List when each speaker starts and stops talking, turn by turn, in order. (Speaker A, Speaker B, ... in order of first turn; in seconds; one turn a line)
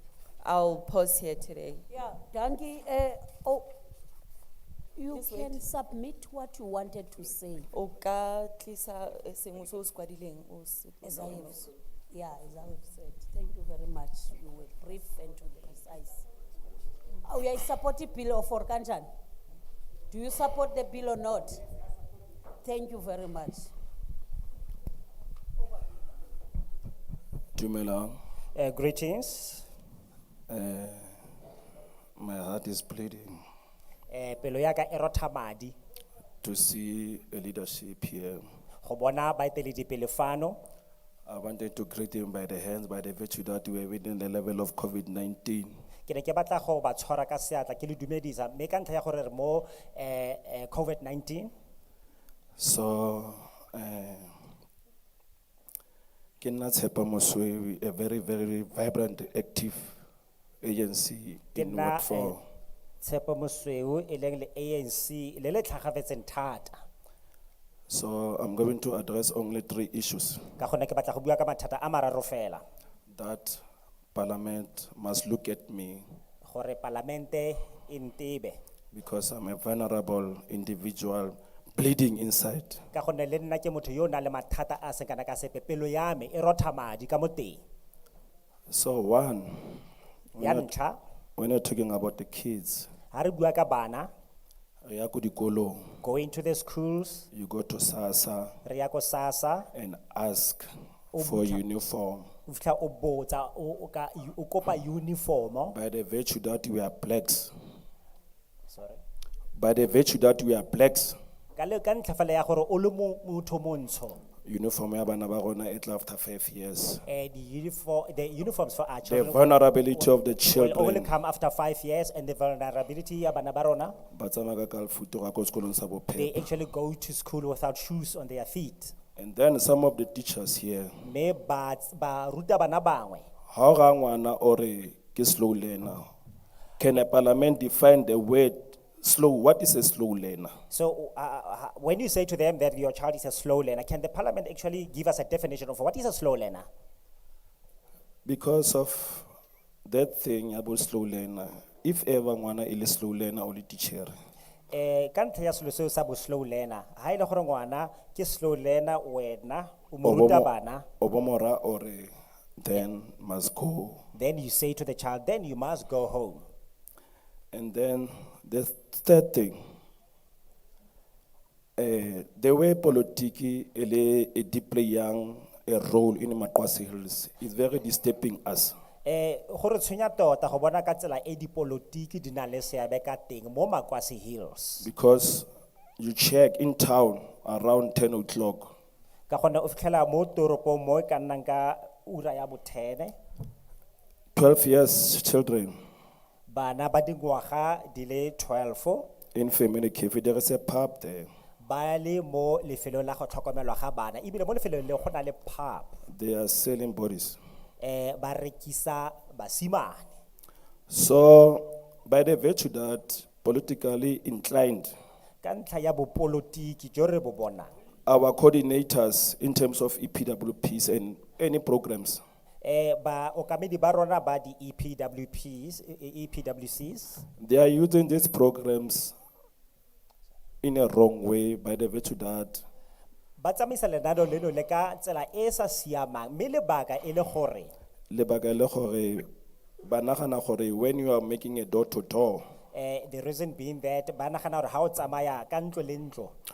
Speaker A: 0.4-1.9
Speaker B: 1.9-3.7
Speaker B: 5.0-7.7
Speaker A: 5.1-5.6
Speaker A: 7.7-11.7
Speaker B: 11.0-16.2
Speaker B: 17.2-19.1
Speaker B: 20.1-21.6
Speaker B: 22.6-23.7
Speaker C: 27.6-28.2
Speaker D: 28.5-29.6
Speaker C: 30.5-31.1
Speaker C: 32.2-33.4
Speaker D: 34.1-35.8
Speaker C: 36.4-38.4
Speaker D: 38.8-40.6
Speaker C: 41.2-45.7
Speaker D: 46.1-51.5
Speaker C: 52.6-54.3
Speaker C: 56.4-60.0
Speaker C: 60.6-62.4
Speaker D: 61.5-62.4
Speaker D: 63.0-66.8
Speaker C: 67.9-70.5
Speaker D: 70.6-72.6
Speaker C: 73.1-73.6
Speaker C: 74.1-76.0
Speaker D: 76.4-78.6
Speaker C: 78.9-82.8
Speaker D: 82.9-87.6
Speaker C: 88.7-90.7
Speaker D: 90.4-91.0
Speaker C: 91.4-92.9
Speaker D: 93.1-94.1
Speaker C: 94.8-95.9
Speaker D: 96.0-97.3
Speaker C: 97.3-98.6
Speaker D: 98.6-99.7
Speaker C: 99.7-102.3
Speaker D: 101.1-101.6
Speaker D: 102.5-105.8
Speaker C: 105.7-107.5
Speaker D: 108.7-109.0
Speaker C: 109.6-111.2
Speaker D: 111.5-114.2
Speaker C: 114.4-117.0
Speaker D: 117.1-119.4
Speaker C: 119.0-121.1
Speaker D: 120.0-124.0
Speaker C: 124.1-126.5
Speaker D: 126.2-128.9
Speaker C: 129.2-130.9
Speaker D: 131.0-133.3
Speaker C: 133.5-136.1
Speaker C: 136.8-140.6
Speaker D: 140.7-146.7
Speaker C: 148.2-149.3
Speaker C: 149.8-154.1
Speaker D: 154.7-160.8
Speaker C: 160.0-164.0
Speaker D: 164.1-166.4
Speaker C: 167.5-169.6
Speaker C: 171.8-178.7
Speaker D: 179.0-184.9
Speaker C: 184.8-185.5
Speaker C: 186.0-188.7
Speaker D: 189.3-193.1
Speaker C: 194.3-195.7
Speaker D: 196.5-199.1
Speaker C: 199.3-201.3
Speaker D: 201.6-205.9
Speaker C: 206.1-207.4
Speaker D: 207.8-210.1
Speaker C: 210.9-214.9
Speaker D: 215.4-217.7
Speaker C: 218.1-222.2
Speaker D: 222.6-227.2
Speaker C: 227.4-229.1
Speaker C: 230.6-232.6
Speaker D: 233.4-237.7
Speaker C: 238.1-239.2
Speaker C: 239.8-242.4
Speaker D: 242.7-246.3